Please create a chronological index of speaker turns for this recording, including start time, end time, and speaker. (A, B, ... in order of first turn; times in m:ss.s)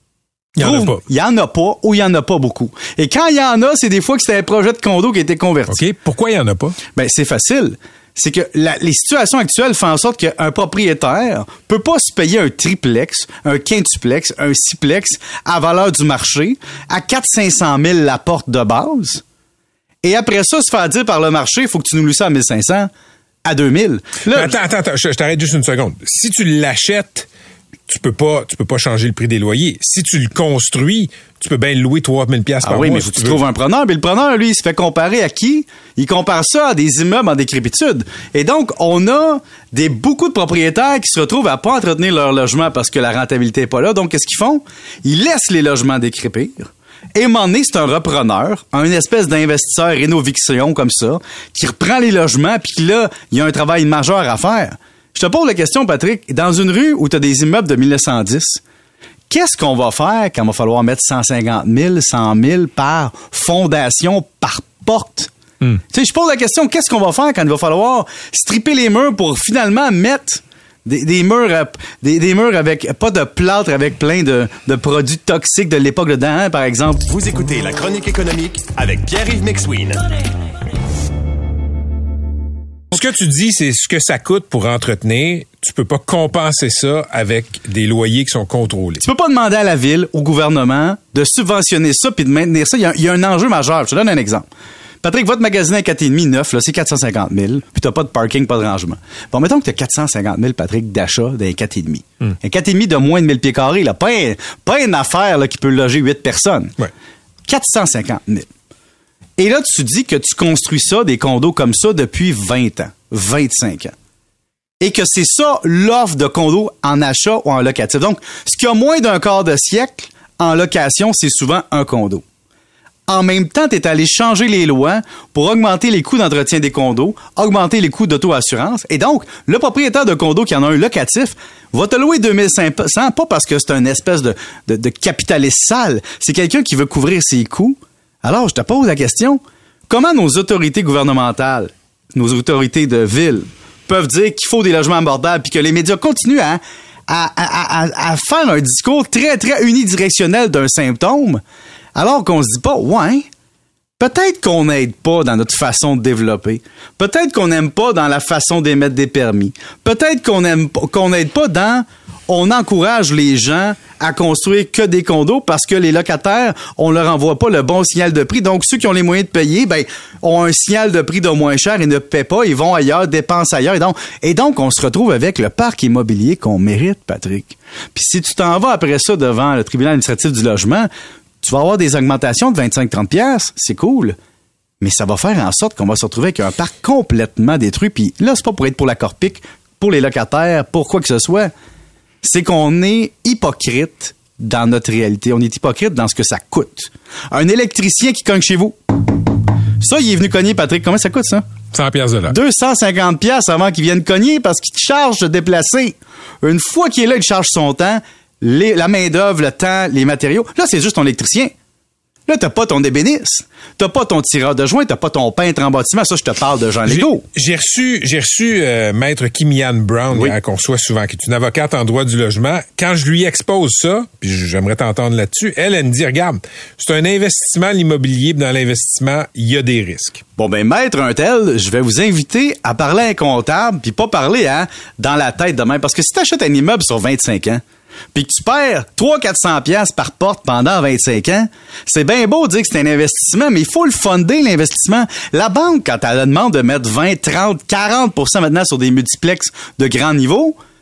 0:00.6-0:01.0 A
0:00.6-0:05.8 B
0:05.7-0:06.8 A
0:06.9-0:19.2 B
0:20.0-0:22.9 B
0:23.4-0:24.6 B
0:24.3-0:27.3 A
0:27.9-0:33.4 A
0:32.6-0:58.6 B
0:59.3-1:05.3 B
1:05.9-1:17.0 B
1:17.0-1:20.0 C
1:22.9-1:29.0 A
1:29.0-1:34.5 B
1:35.0-1:46.8 B
1:47.4-1:48.5 B
1:49.4-1:53.9 B
1:54.8-2:02.2 B
2:03.1-2:31.4 B
2:31.9-2:33.2 B
2:34.0-3:00.9 B
3:01.4-3:04.1 B
3:04.8-3:11.5 B
3:12.2-3:18.8 B
3:19.8-3:21.4 B
3:21.7-3:22.4 A
3:22.3-3:31.5 B
3:32.3-3:37.2 B
3:36.9-3:50.2 A
3:40.1-3:40.4 B
3:50.4-3:57.6 B
3:58.1-4:10.6 B